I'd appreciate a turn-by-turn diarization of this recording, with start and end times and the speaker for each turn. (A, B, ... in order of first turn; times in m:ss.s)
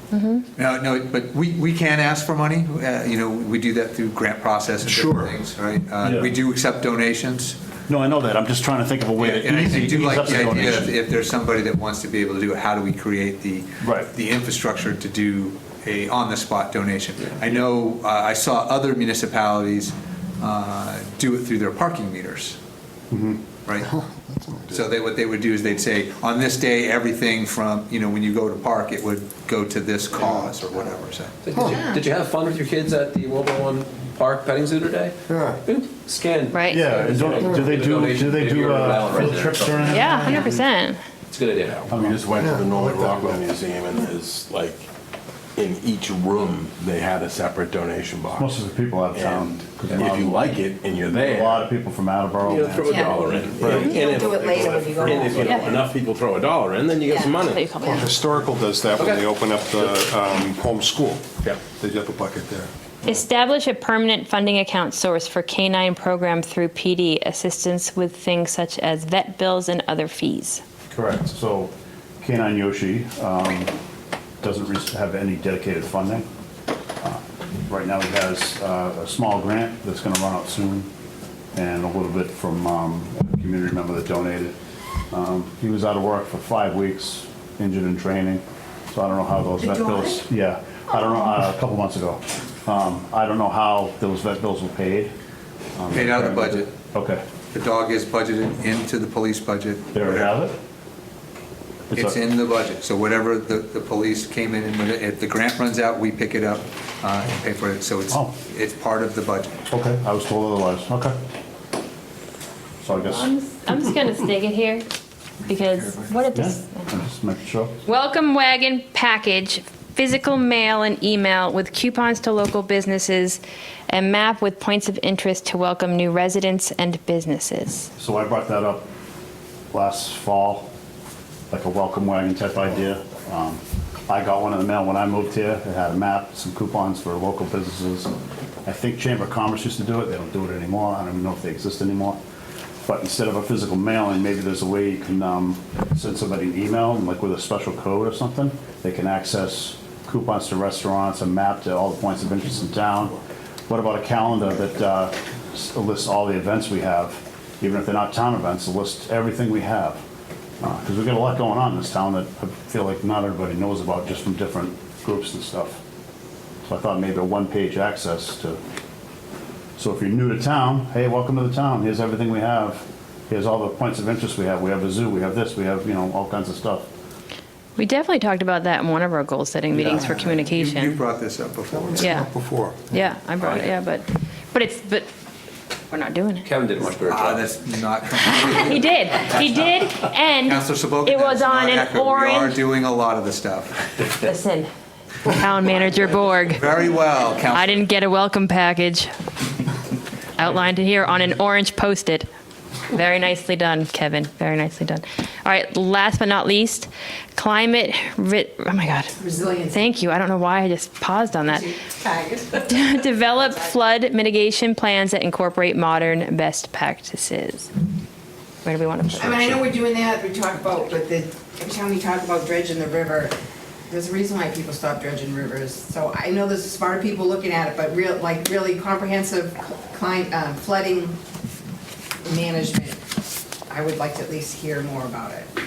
0:00.1-0:00.5 A
0:00.6-0:07.6 B
0:04.8-0:05.4 C
0:06.0-0:06.3 D
0:07.9-0:11.0 D
0:09.2-0:22.6 B
0:13.8-0:14.1 D
0:23.1-0:23.4 D
0:23.8-0:24.9 C
0:24.7-0:31.5 B
0:30.2-0:30.5 C
0:31.4-0:40.1 E
0:31.5-0:31.8 C
0:31.7-0:32.0 F
0:35.3-0:35.6 C
0:36.5-0:36.8 A
0:36.7-0:40.6 D
0:39.9-0:41.0 A
0:41.3-0:41.9 E
0:41.7-0:44.9 G
0:41.9-0:42.2 D
0:42.4-0:43.5 C
0:45.6-0:48.6 G
0:48.4-0:53.9 D
0:49.1-0:51.8 G
0:49.9-0:50.2 E
0:52.4-0:57.7 G
0:52.8-0:55.9 F
0:55.3-0:55.8 A
0:57.0-0:58.0 F
0:57.5-0:58.1 A
0:57.8-1:02.7 C
1:03.0-1:10.6 A
1:10.9-1:13.8 D
1:14.4-1:16.2 D
1:17.0-1:20.9 D
1:21.6-1:24.6 D
1:25.1-1:35.1 D
1:29.6-1:30.2 F
1:35.8-1:37.2 D
1:35.9-1:36.7 B
1:37.5-1:40.4 B
1:39.9-1:40.5 D
1:41.9-1:49.6 B
1:41.9-1:42.2 D
1:49.7-1:51.1 D
1:52.8-1:53.3 D
1:52.9-1:54.8 A
1:55.4-1:56.9 A
1:56.3-1:57.8 D
1:57.9-2:07.9 A
2:08.0-2:08.9 D
2:09.7-2:10.7 D
2:11.5-2:18.1 D
2:18.6-2:22.2 D
2:22.9-2:40.0 D
2:40.6-2:45.8 D
2:46.6-2:48.6 D
2:49.8-2:56.9 D
2:57.8-3:01.0 A
2:59.7-3:02.1 B
2:59.9-3:00.2 C
3:01.7-3:03.0 C
3:02.0-3:02.3 A
3:02.9-3:05.1 A
3:03.4-3:03.7 E
3:05.9-3:06.5 A
3:06.4-3:07.5 E
3:07.0-3:13.8 B
3:08.2-3:12.6 A
3:14.2-3:14.7 A
3:15.3-3:16.7 A
3:16.5-3:17.8 B
3:17.5-3:19.1 A
3:20.4-3:22.3 A
3:22.9-3:29.1 A
3:29.2-3:29.9 F
3:29.7-3:31.7 A
3:31.5-3:33.6 F
3:32.6-3:37.7 A
3:38.6-3:39.6 A
3:39.1-3:43.3 F
3:43.9-3:51.2 F
3:52.2-3:53.0 F
3:53.7-3:55.5 F